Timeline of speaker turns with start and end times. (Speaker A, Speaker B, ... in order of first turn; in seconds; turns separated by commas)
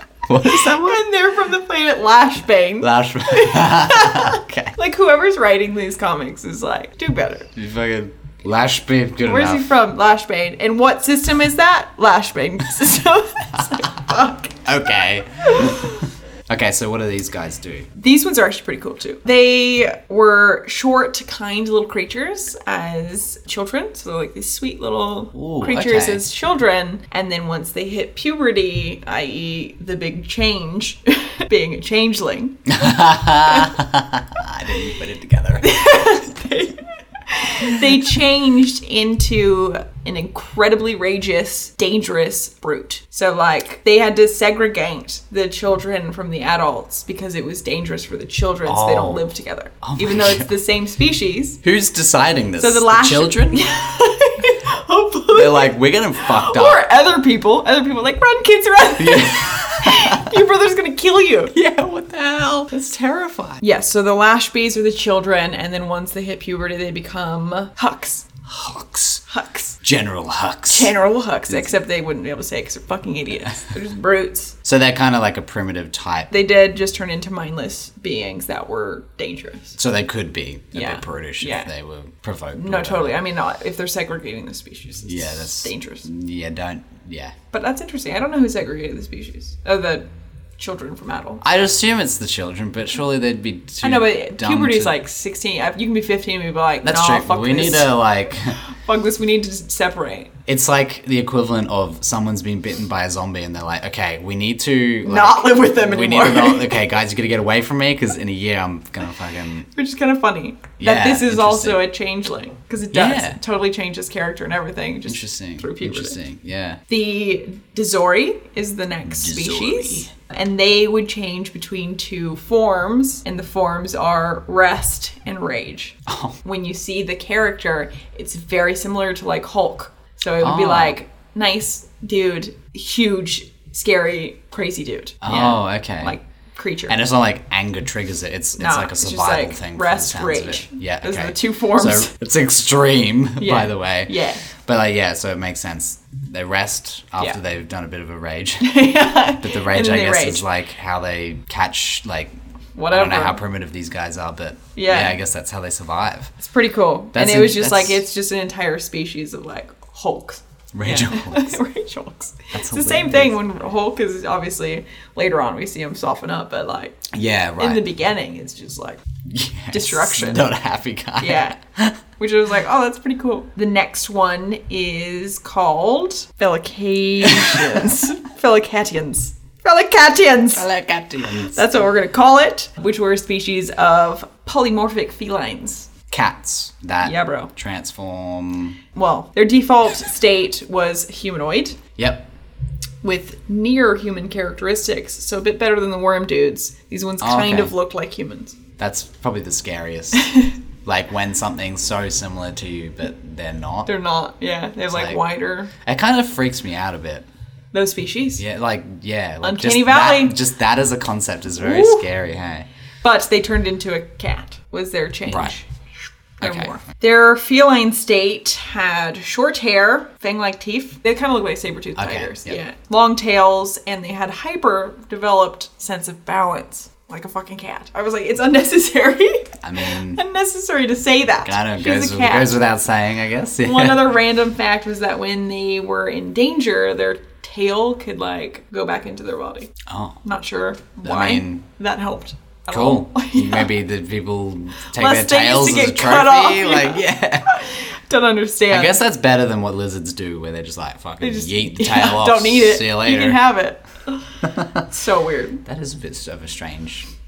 Speaker A: 0.2-1.0, Speaker B: 0.4-7.5, Speaker A: 2.8-4.7, Speaker A: 7.5-9.7, Speaker B: 9.2-16.0, Speaker A: 14.6-17.9, Speaker B: 17.9-33.8, Speaker A: 25.3-26.3, Speaker A: 32.7-35.8, Speaker B: 35.6-51.6, Speaker A: 48.6-49.3, Speaker A: 49.8-50.5, Speaker A: 51.6-53.7, Speaker B: 52.6-61.6, Speaker A: 55.3-56.9, Speaker A: 59.0-60.3, Speaker A: 61.5-62.7, Speaker B: 62.7-68.3, Speaker A: 68.5-69.2, Speaker B: 69.3-69.8, Speaker A: 69.8-70.9, Speaker B: 70.7-74.5, Speaker A: 74.6-76.3, Speaker B: 76.3-79.8, Speaker A: 79.8-83.2, Speaker B: 80.7-81.7, Speaker B: 82.5-86.1, Speaker A: 85.0-87.3, Speaker B: 87.5-90.1, Speaker B: 90.6-91.4, Speaker A: 91.4-95.0, Speaker B: 93.8-97.9, Speaker A: 96.8-98.5, Speaker B: 98.7-100.3, Speaker A: 100.5-109.7, Speaker B: 105.0-106.8, Speaker B: 109.7-116.2, Speaker A: 110.8-111.9, Speaker A: 112.9-113.4, Speaker A: 115.1-116.8, Speaker B: 116.9-137.0, Speaker A: 119.0-120.1, Speaker A: 126.1-126.3, Speaker A: 130.4-131.0, Speaker A: 135.2-136.2, Speaker A: 136.9-152.3, Speaker B: 138.6-142.1, Speaker B: 143.4-144.4, Speaker B: 148.6-150.4, Speaker B: 152.8-153.4, Speaker A: 152.9-156.3, Speaker B: 154.7-155.2, Speaker B: 156.4-169.0, Speaker A: 157.1-158.0, Speaker A: 160.7-161.6, Speaker A: 162.5-163.4, Speaker A: 167.1-167.8, Speaker A: 169.3-172.0, Speaker B: 169.7-170.5, Speaker B: 171.2-171.6, Speaker B: 172.2-180.7, Speaker A: 177.2-178.0, Speaker A: 180.5-181.6, Speaker B: 181.5-185.9, Speaker A: 186.1-188.8, Speaker B: 187.0-187.5, Speaker B: 188.9-191.8, Speaker A: 191.9-192.3, Speaker B: 193.0-198.6, Speaker A: 197.2-197.7, Speaker A: 198.8-200.3, Speaker B: 200.2-200.5, Speaker A: 200.8-203.9, Speaker B: 203.8-205.7, Speaker A: 204.9-205.2, Speaker A: 205.7-207.3, Speaker B: 207.7-208.4, Speaker A: 208.4-212.7, Speaker B: 209.4-210.4, Speaker B: 211.6-212.0, Speaker B: 213.0-215.7, Speaker A: 215.3-215.5, Speaker B: 216.4-232.6, Speaker A: 216.4-216.8, Speaker A: 221.9-222.6, Speaker A: 229.6-230.2, Speaker A: 231.4-234.1, Speaker B: 233.6-239.7, Speaker A: 239.8-240.2, Speaker B: 240.2-243.7, Speaker A: 241.0-241.6, Speaker A: 242.7-247.6, Speaker B: 244.9-249.0, Speaker A: 248.7-253.4, Speaker B: 251.2-255.6, Speaker A: 254.4-254.8, Speaker A: 255.6-257.1